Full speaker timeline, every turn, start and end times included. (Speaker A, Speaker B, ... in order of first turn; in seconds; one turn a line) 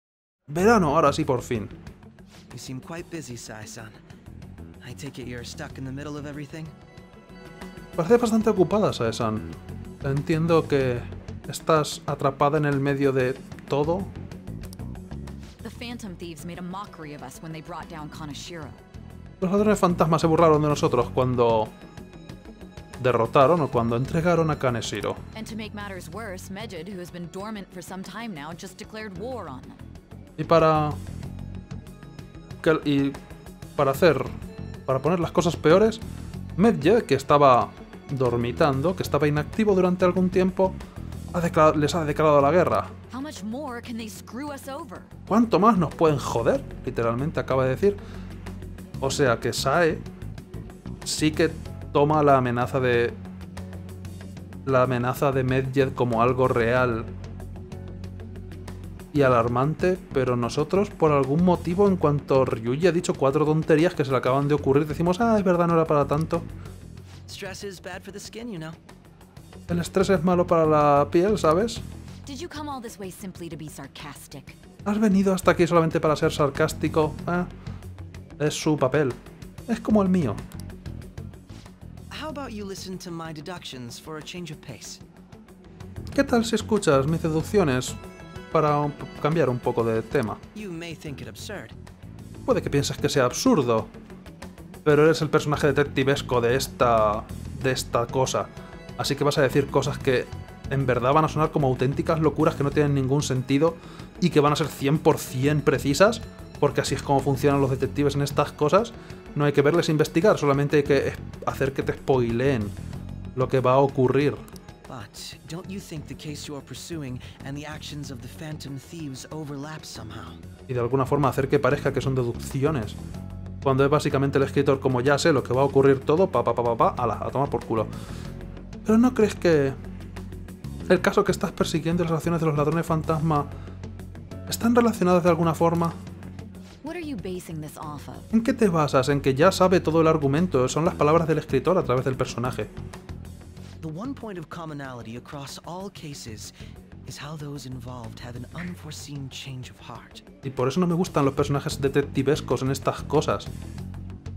Speaker A: 0.5-1.8
Speaker B: 2.5-3.9
Speaker B: 4.8-6.7
Speaker A: 8.0-14.1
Speaker C: 15.6-18.8
Speaker A: 19.4-21.7
Speaker A: 23.0-25.2
Speaker C: 25.3-29.8
Speaker A: 30.4-31.0
Speaker A: 32.6-33.2
Speaker A: 33.8-34.4
Speaker A: 34.9-36.0
Speaker A: 36.6-40.8
Speaker A: 41.3-42.9
Speaker C: 43.1-45.1
Speaker A: 45.3-48.0
Speaker A: 49.0-50.0
Speaker A: 51.0-53.2
Speaker A: 54.6-57.1
Speaker A: 59.1-66.4
Speaker B: 67.3-68.8
Speaker A: 69.7-71.8
Speaker C: 72.2-74.6
Speaker A: 74.8-77.5
Speaker A: 78.4-80.4
Speaker B: 82.1-85.0
Speaker A: 86.1-88.0
Speaker A: 88.5-90.4
Speaker B: 90.5-91.7
Speaker A: 92.5-93.9
Speaker A: 94.8-112.7
Speaker A: 113.3-114.4
Speaker B: 114.9-120.4
Speaker A: 120.7-123.0
Speaker A: 123.6-127.9
Speaker A: 128.8-129.8
Speaker A: 130.9-133.5
Speaker A: 134.5-135.9
Speaker C: 136.8-138.3
Speaker A: 138.3-142.7
Speaker B: 143.8-146.5
Speaker B: 147.1-150.2
Speaker A: 150.4-153.5